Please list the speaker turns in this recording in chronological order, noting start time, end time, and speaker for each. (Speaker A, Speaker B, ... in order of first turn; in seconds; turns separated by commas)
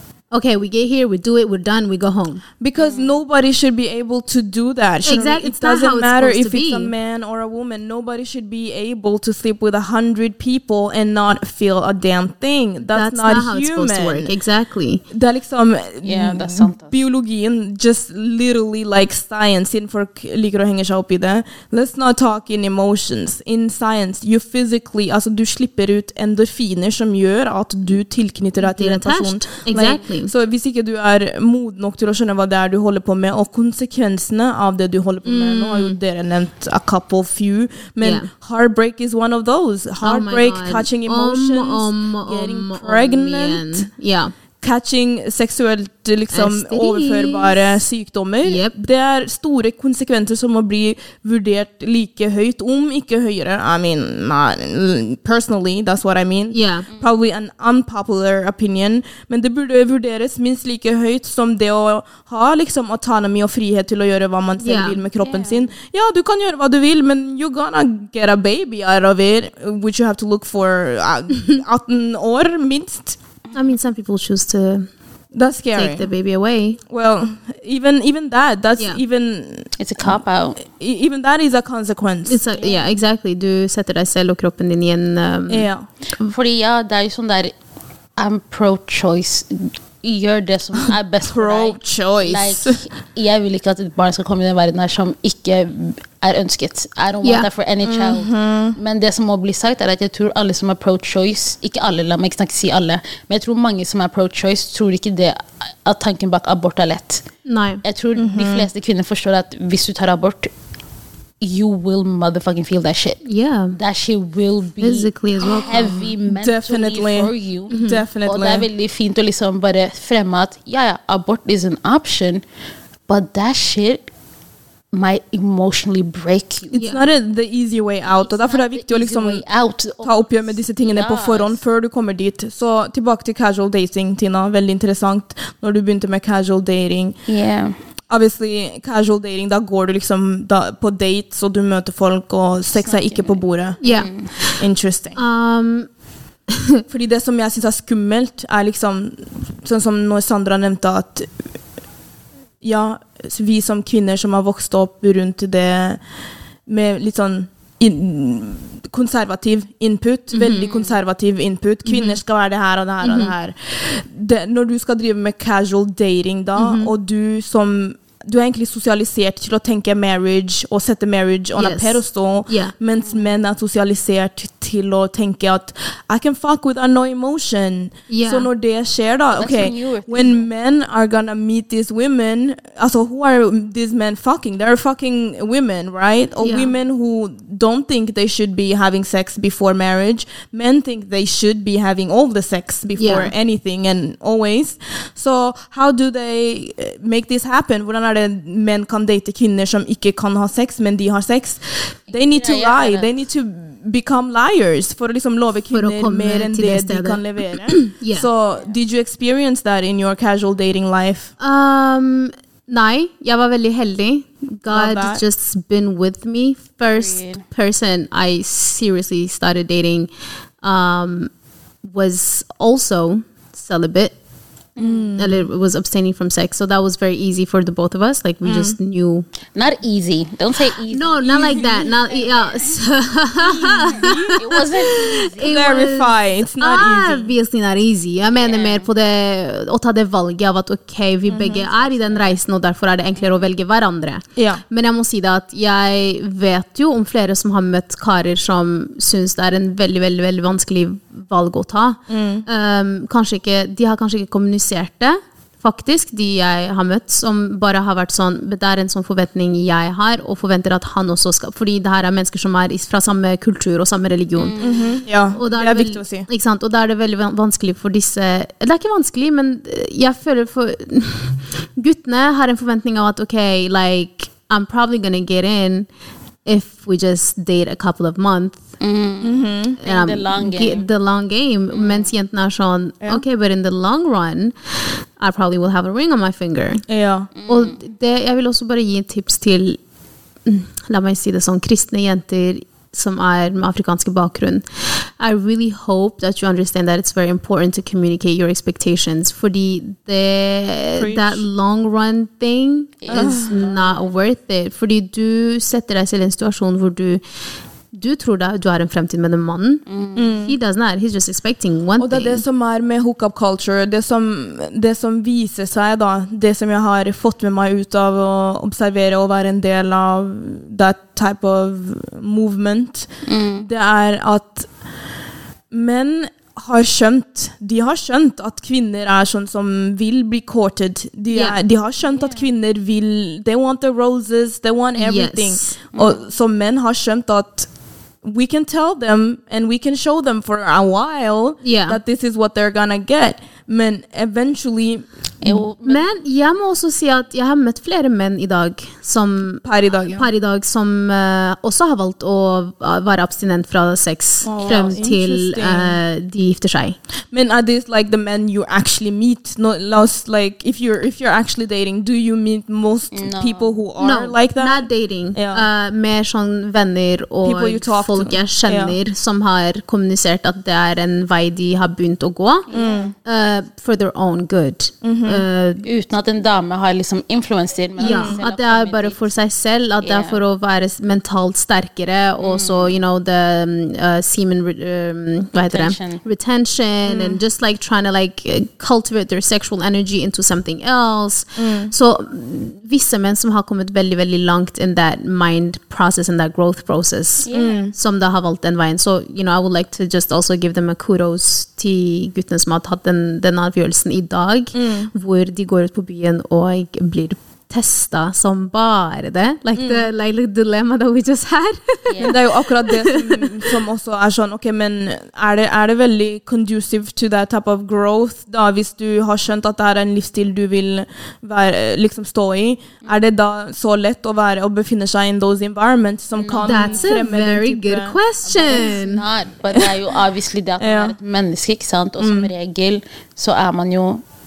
Speaker A: 0.3-2.4, Speaker B: 2.6-14.3, Speaker C: 2.8-3.1, Speaker A: 5.0-6.9, Speaker A: 12.9-15.0, Speaker B: 15.1-43.9, Speaker C: 16.0-17.0, Speaker A: 28.6-30.3, Speaker A: 35.2-36.0, Speaker A: 38.0-38.3, Speaker A: 40.0-44.3, Speaker B: 44.6-73.2, Speaker A: 46.3-47.8, Speaker A: 48.4-48.8, Speaker A: 56.5-56.9, Speaker A: 64.6-65.0, Speaker C: 65.2-65.7, Speaker A: 73.5-74.9, Speaker B: 75.3-76.1, Speaker A: 75.7-76.8, Speaker B: 76.9-82.4, Speaker C: 79.8-80.6, Speaker A: 82.3-85.7, Speaker C: 82.6-82.8, Speaker B: 85.5-85.9, Speaker C: 86.2-87.5, Speaker C: 88.2-107.2, Speaker B: 90.8-92.8, Speaker A: 97.2-97.5, Speaker B: 97.8-98.8, Speaker A: 107.5-107.8, Speaker C: 107.8-110.5, Speaker B: 108.2-108.7, Speaker C: 111.4-113.2, Speaker A: 113.2-113.8, Speaker C: 113.8-122.4, Speaker A: 114.8-116.1, Speaker B: 116.3-118.7, Speaker A: 117.7-118.0, Speaker C: 123.1-124.0, Speaker C: 124.9-126.8, Speaker B: 126.7-129.4, Speaker A: 126.8-127.0, Speaker C: 128.1-131.6, Speaker B: 130.0-137.2, Speaker C: 137.3-137.7, Speaker B: 138.1-143.8, Speaker C: 142.7-144.3, Speaker A: 143.8-144.6, Speaker B: 144.6-145.2, Speaker A: 145.2-145.9, Speaker A: 146.5-146.8, Speaker B: 146.9-151.3, Speaker B: 152.6-156.0, Speaker B: 156.7-211.3, Speaker A: 160.3-160.7, Speaker C: 160.6-161.0, Speaker A: 161.9-162.2, Speaker A: 163.0-163.3, Speaker A: 166.6-166.9, Speaker A: 171.6-172.7, Speaker C: 173.0-173.3, Speaker A: 178.1-178.5, Speaker C: 179.3-180.5, Speaker A: 186.4-186.7, Speaker A: 193.0-193.3, Speaker C: 202.2-203.1, Speaker A: 205.7-208.3, Speaker A: 211.4-220.1, Speaker B: 214.7-215.2, Speaker C: 216.9-217.4, Speaker A: 220.6-221.3, Speaker A: 221.8-224.2, Speaker C: 224.8-225.2, Speaker B: 224.8-225.5, Speaker A: 225.2-229.3, Speaker B: 228.4-228.8, Speaker C: 229.5-232.8, Speaker A: 230.9-264.7, Speaker B: 231.4-231.8, Speaker B: 233.4-234.4, Speaker C: 233.8-235.6, Speaker B: 235.3-237.3, Speaker C: 238.4-238.9, Speaker B: 241.3-241.7, Speaker C: 241.5-242.3, Speaker B: 244.4-244.6, Speaker B: 252.1-252.5, Speaker C: 264.4-265.0, Speaker B: 264.6-266.3, Speaker A: 265.3-275.9, Speaker A: 276.4-278.6, Speaker C: 278.8-280.9, Speaker B: 279.2-279.8, Speaker A: 279.8-284.5, Speaker C: 281.7-282.1, Speaker A: 285.2-286.8, Speaker B: 286.9-287.3, Speaker C: 287.4-287.8, Speaker A: 287.5-289.8, Speaker A: 290.5-294.6, Speaker A: 295.2-307.2, Speaker B: 301.0-301.4, Speaker C: 303.0-304.1, Speaker B: 303.1-303.6, Speaker A: 307.9-309.8, Speaker C: 309.9-310.4, Speaker B: 310.2-310.6, Speaker A: 310.4-312.4, Speaker B: 312.0-324.7, Speaker C: 323.3-323.7, Speaker B: 325.7-337.7, Speaker A: 331.3-331.6, Speaker C: 332.1-332.4, Speaker A: 335.0-335.8, Speaker C: 335.9-336.2, Speaker B: 338.2-345.1, Speaker A: 341.6-342.0, Speaker C: 345.4-346.1, Speaker A: 345.4-357.0, Speaker B: 349.6-350.3, Speaker B: 354.4-356.0, Speaker C: 354.6-355.0, Speaker B: 357.3-365.7, Speaker C: 363.1-363.8, Speaker A: 364.0-372.7, Speaker B: 367.4-369.0, Speaker C: 372.7-373.1, Speaker B: 372.7-373.1, Speaker A: 373.2-375.9, Speaker B: 375.0-375.4, Speaker C: 375.8-379.3, Speaker A: 378.0-413.7, Speaker B: 378.0-378.4, Speaker C: 380.0-380.4, Speaker C: 382.4-383.0, Speaker C: 385.7-386.2, Speaker B: 387.1-387.4, Speaker B: 391.6-391.9, Speaker C: 397.4-397.8, Speaker B: 397.5-397.9, Speaker B: 404.7-405.1, Speaker B: 409.8-410.1, Speaker C: 412.1-412.4, Speaker B: 412.2-428.2, Speaker C: 426.4-427.1, Speaker A: 426.6-429.2, Speaker C: 428.4-434.2, Speaker B: 430.8-431.1, Speaker B: 432.2-432.5